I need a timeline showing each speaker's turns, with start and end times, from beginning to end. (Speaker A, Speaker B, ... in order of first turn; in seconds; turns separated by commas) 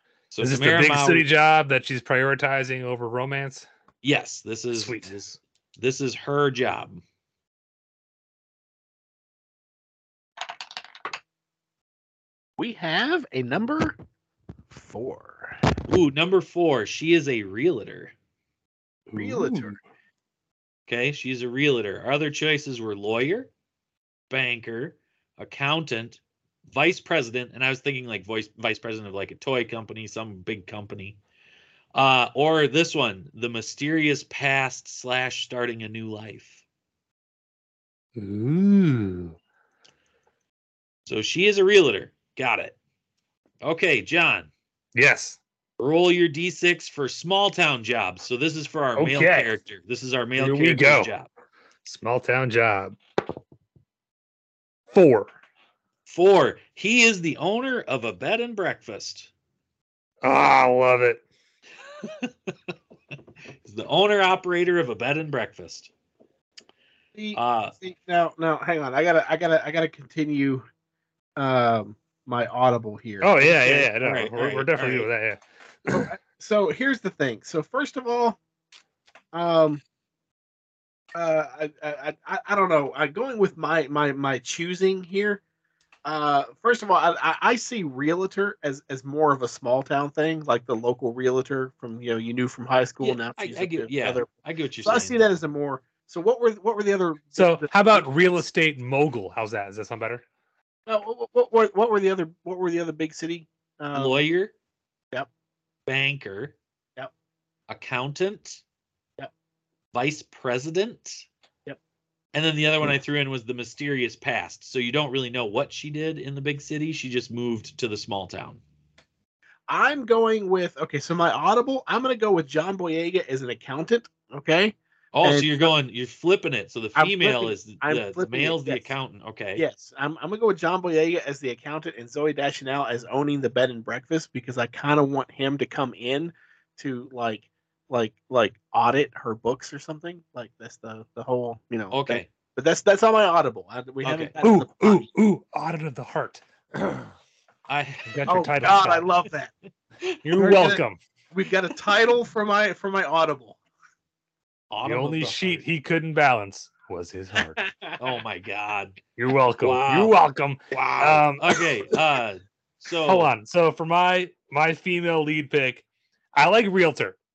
Speaker A: 0.3-1.2, Speaker B: 0.4-3.7, Speaker A: 4.0-7.0, Speaker B: 4.7-5.1, Speaker C: 12.6-13.9, Speaker C: 14.7-15.6, Speaker A: 15.9-18.1, Speaker C: 19.1-19.8, Speaker B: 19.1-19.7, Speaker A: 20.9-23.5, Speaker A: 24.3-31.2, Speaker A: 31.9-36.6, Speaker B: 38.1-39.4, Speaker A: 41.1-42.7, Speaker A: 43.6-44.5, Speaker B: 44.9-45.4, Speaker A: 45.8-51.3, Speaker B: 49.0-49.5, Speaker B: 50.4-51.1, Speaker B: 51.8-53.0, Speaker B: 54.9-55.3, Speaker A: 56.1-59.3, Speaker B: 60.2-61.2, Speaker A: 62.0-62.5, Speaker A: 63.6-65.9, Speaker C: 67.1-70.7, Speaker A: 67.3-67.7, Speaker C: 71.3-73.9, Speaker B: 73.2-76.1, Speaker A: 73.8-75.1, Speaker C: 75.9-78.4, Speaker C: 79.3-79.8, Speaker C: 81.1-85.4, Speaker C: 86.0-94.3, Speaker A: 93.0-95.2, Speaker C: 94.8-98.1, Speaker B: 97.3-100.2, Speaker C: 100.9-104.2, Speaker A: 103.9-104.5, Speaker A: 105.8-106.5, Speaker A: 107.7-108.6, Speaker A: 109.9-111.2, Speaker A: 112.3-118.6, Speaker C: 119.7-125.7, Speaker A: 125.1-129.6, Speaker C: 127.0-128.9, Speaker C: 129.6-145.1, Speaker A: 141.9-142.2, Speaker A: 144.0-144.3, Speaker B: 144.4-147.1, Speaker A: 147.7-148.4, Speaker B: 148.1-149.1, Speaker C: 148.3-149.5, Speaker B: 150.2-151.0, Speaker C: 150.4-150.8, Speaker C: 151.3-153.6, Speaker A: 154.7-155.6, Speaker B: 154.8-157.6, Speaker C: 157.6-157.9, Speaker A: 158.0-159.0, Speaker B: 159.2-161.6, Speaker A: 159.6-160.1, Speaker A: 160.7-163.3, Speaker B: 163.1-167.2